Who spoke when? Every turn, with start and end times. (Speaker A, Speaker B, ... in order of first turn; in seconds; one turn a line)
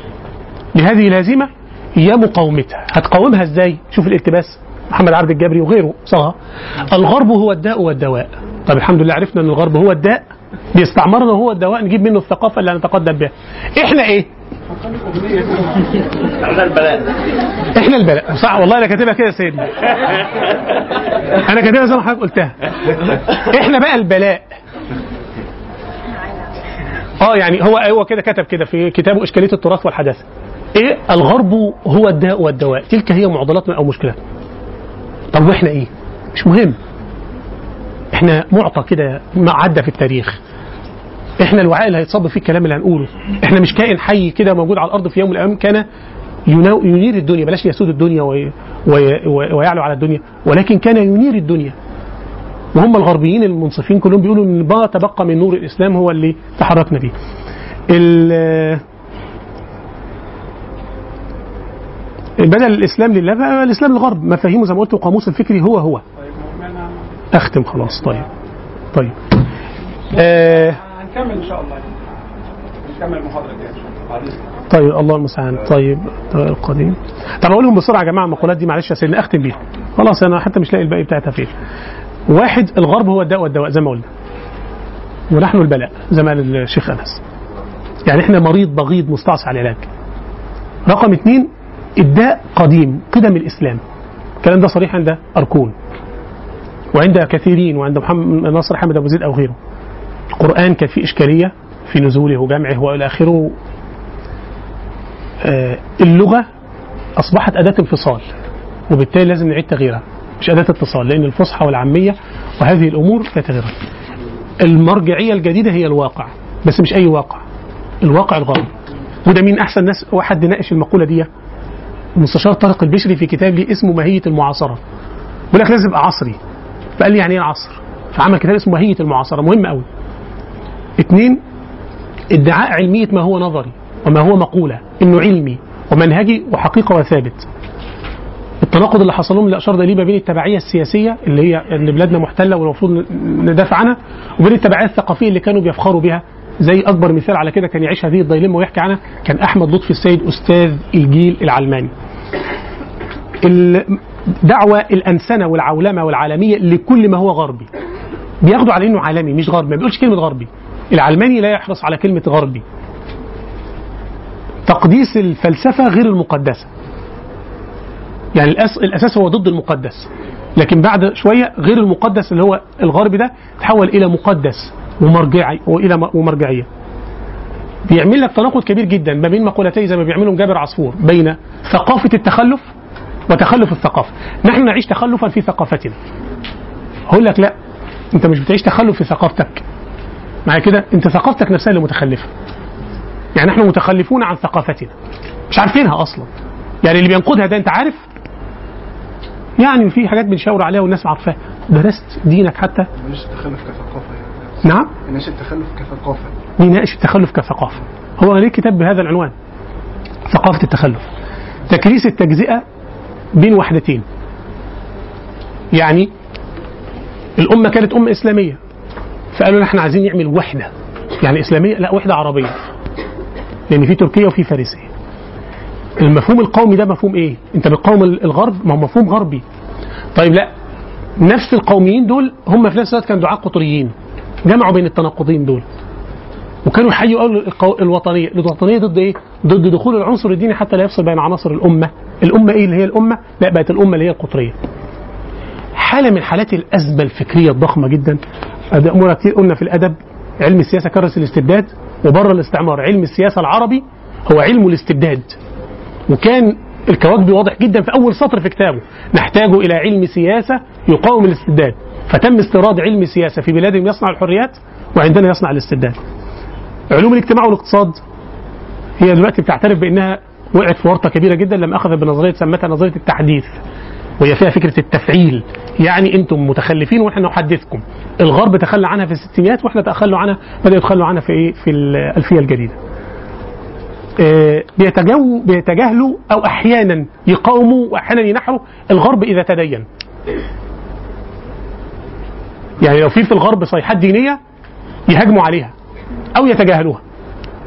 Speaker A: 0.7-6.3
Speaker A: 6.9-14.3
Speaker B: 14.8-15.9
Speaker A: 17.7-19.9
Speaker A: 21.4-22.6
Speaker A: 23.3-24.5
Speaker A: 27.2-34.2
Speaker A: 35.3-36.8
Speaker A: 38.1-40.4
Speaker A: 41.4-45.9
Speaker A: 46.5-51.8
Speaker A: 52.7-57.1
Speaker A: 57.9-58.8
Speaker A: 62.4-66.0
Speaker B: 66.2-67.0
Speaker A: 67.3-68.2
Speaker B: 70.1-71.9
Speaker A: 70.2-70.8
Speaker B: 72.8-74.4
Speaker A: 74.7-81.5
Speaker A: 82.3-84.0
Speaker A: 85.3-87.2
Speaker A: 88.0-89.9
Speaker A: 90.9-93.8
Speaker A: 94.4-95.7
Speaker A: 96.9-99.6
Speaker A: 100.3-103.5
Speaker A: 105.4-106.5
Speaker A: 107.2-108.2
Speaker A: 108.9-113.7
Speaker A: 114.6-117.4
Speaker A: 118.0-118.7
Speaker A: 119.2-121.3
Speaker A: 122.2-124.8
Speaker A: 125.5-126.4
Speaker A: 127.0-129.8
Speaker A: 131.0-131.4
Speaker A: 132.3-137.4
Speaker A: 138.6-151.9
Speaker A: 153.4-157.7
Speaker A: 158.4-162.6
Speaker A: 164.7-166.7
Speaker A: 168.3-176.7
Speaker A: 177.9-182.7
Speaker A: 183.3-185.9
Speaker A: 187.1-187.5
Speaker A: 188.1-189.6
Speaker A: 190.4-192.3
Speaker A: 193.3-194.9
Speaker A: 195.5-196.3
Speaker A: 196.8-198.0
Speaker A: 199.6-202.9
Speaker C: 203.0-204.5
Speaker A: 204.6-204.9
Speaker C: 205.0-206.3
Speaker A: 206.6-209.3
Speaker A: 210.3-211.1
Speaker A: 211.7-212.6
Speaker A: 213.3-214.0
Speaker A: 215.7-216.1
Speaker A: 217.4-218.6
Speaker A: 219.3-222.6
Speaker A: 223.7-224.9
Speaker A: 226.0-229.4
Speaker A: 230.1-230.5
Speaker A: 231.2-233.9
Speaker A: 234.4-235.6
Speaker A: 236.6-244.6
Speaker A: 245.7-248.2
Speaker A: 248.7-255.4
Speaker A: 256.1-266.0
Speaker A: 266.9-268.0
Speaker A: 269.0-273.5
Speaker A: 274.2-282.8
Speaker A: 284.2-289.9
Speaker A: 292.8-294.4
Speaker A: 295.1-295.7
Speaker A: 296.3-297.0